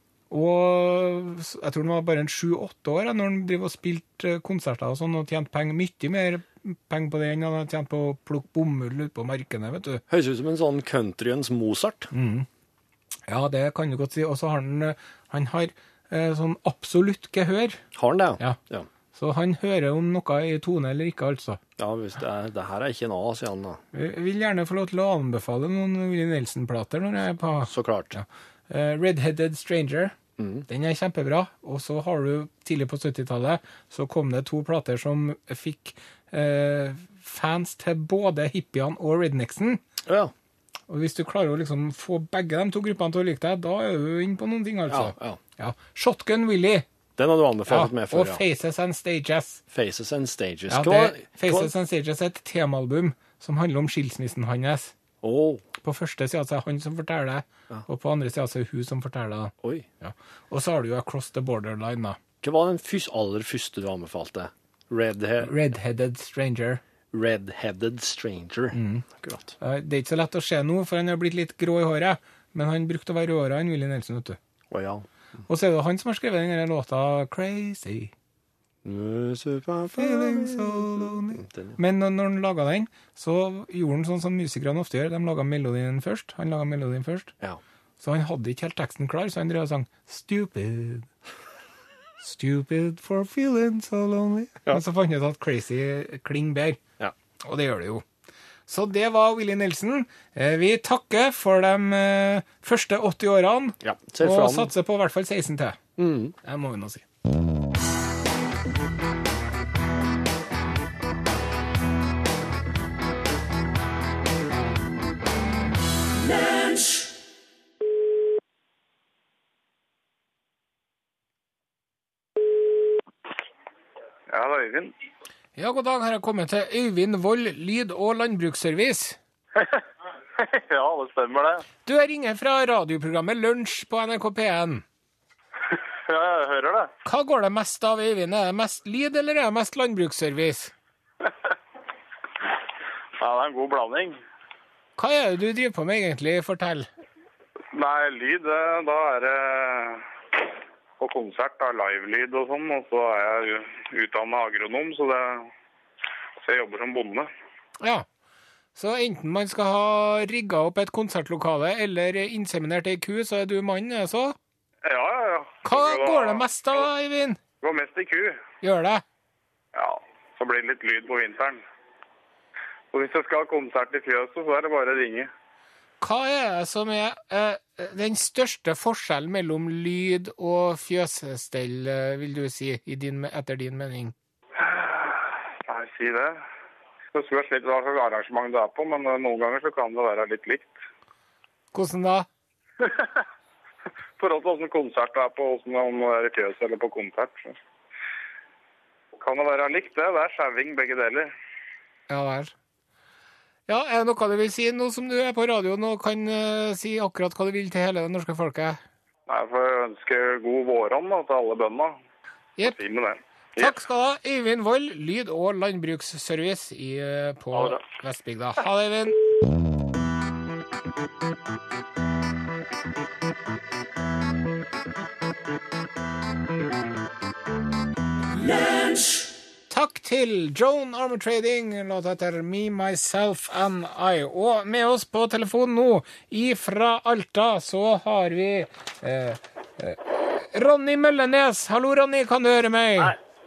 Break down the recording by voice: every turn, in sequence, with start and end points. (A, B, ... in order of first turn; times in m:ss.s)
0:00.3-0:10.0 A
0:10.1-0:12.1 B
0:12.1-0:12.5 A
0:13.3-0:17.8 A
0:18.0-0:18.9 B
0:19.1-0:21.6 A
0:21.8-0:23.8 B
0:23.9-0:30.2 A
0:27.7-0:28.2 B
0:30.4-0:30.6 B
0:30.7-0:39.8 A
0:40.1-0:40.3 B
0:40.9-0:46.9 A
0:44.9-0:45.4 B
0:47.2-0:48.4 B
0:47.7-0:49.6 A
0:49.7-0:51.7 B
0:50.7-0:54.9 A
0:55.2-0:55.6 B
0:55.8-1:02.2 A
0:59.6-0:59.9 B
1:02.4-1:05.5 B
1:05.4-1:06.8 A
1:07.1-1:09.5 B
1:08.7-1:09.0 A
1:09.6-1:14.4 A
1:14.7-1:15.1 B
1:15.5-1:18.1 A
1:18.8-1:21.8 B
1:19.9-1:27.3 A
1:28.0-1:31.1 A
1:32.2-1:36.8 A
1:37.4-1:38.0 A
1:38.7-1:45.8 A
1:43.8-1:44.7 B
1:46.0-1:46.4 B
1:46.4-1:47.0 A
2:04.3-2:04.9 C
2:05.6-2:09.2 A
2:09.6-2:09.8 C
2:10.4-2:11.6 C
2:11.8-2:14.8 A
2:15.7-2:16.9 C
2:17.0-2:20.7 A
2:23.2-2:24.2 C
2:25.0-2:26.9 A
2:27.7-2:30.0 C
2:31.0-2:35.5 C
2:36.4-2:37.3 C
2:37.8-2:38.1 A
2:38.8-2:44.4 A
2:44.8-2:46.8 C
2:45.6-2:47.4 A
2:47.6-2:48.4 C
2:48.6-2:49.0 A
2:49.8-2:51.6 C
2:52.9-2:55.3 C
2:56.0-3:04.1 A
3:04.6-3:06.4 C
3:07.1-3:10.7 C
3:11.7-3:12.3 A
3:12.8-3:13.2 C
3:14.2-3:17.6 C
3:19.1-3:21.3 C
3:22.1-3:22.5 A
3:23.7-3:28.8 A
3:29.3-3:32.0 C
3:32.6-3:33.7 C
3:33.6-3:39.2 A
3:37.5-3:37.8 C
3:49.7-4:03.1 A